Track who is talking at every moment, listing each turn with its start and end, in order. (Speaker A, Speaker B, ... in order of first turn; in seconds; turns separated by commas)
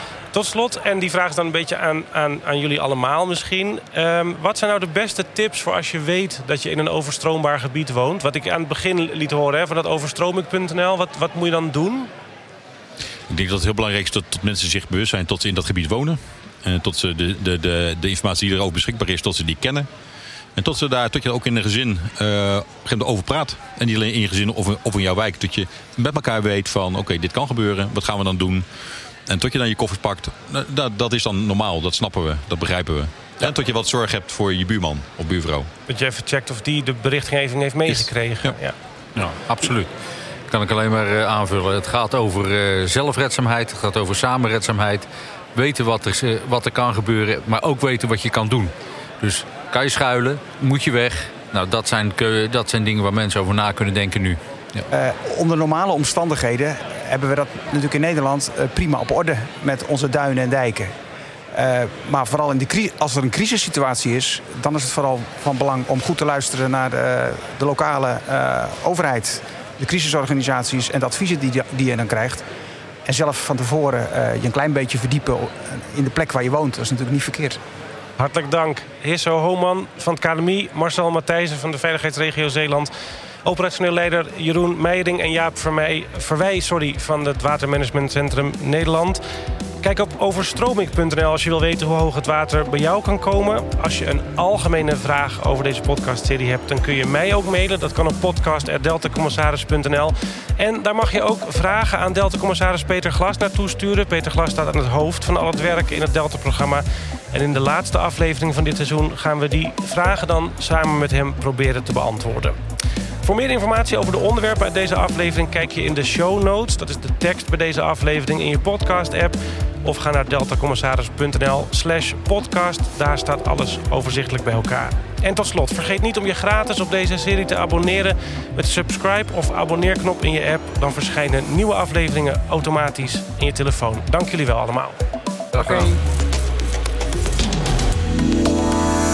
Speaker A: 0.3-12.1, Speaker B: 13.3-19.9, Speaker B: 20.6-28.6, Speaker B: 29.3-35.7, Speaker A: 35.9-38.7, Speaker B: 37.9-38.5, Speaker C: 39.1-39.9, Speaker C: 40.5-54.9, Speaker D: 54.9-60.9, Speaker D: 61.5-72.4, Speaker D: 73.0-77.6, Speaker A: 78.2-82.9, Speaker A: 83.4-89.2, Speaker A: 89.8-112.6, Speaker A: 113.2-135.0, Speaker C: 135.5-135.9, Speaker A: 135.6-135.9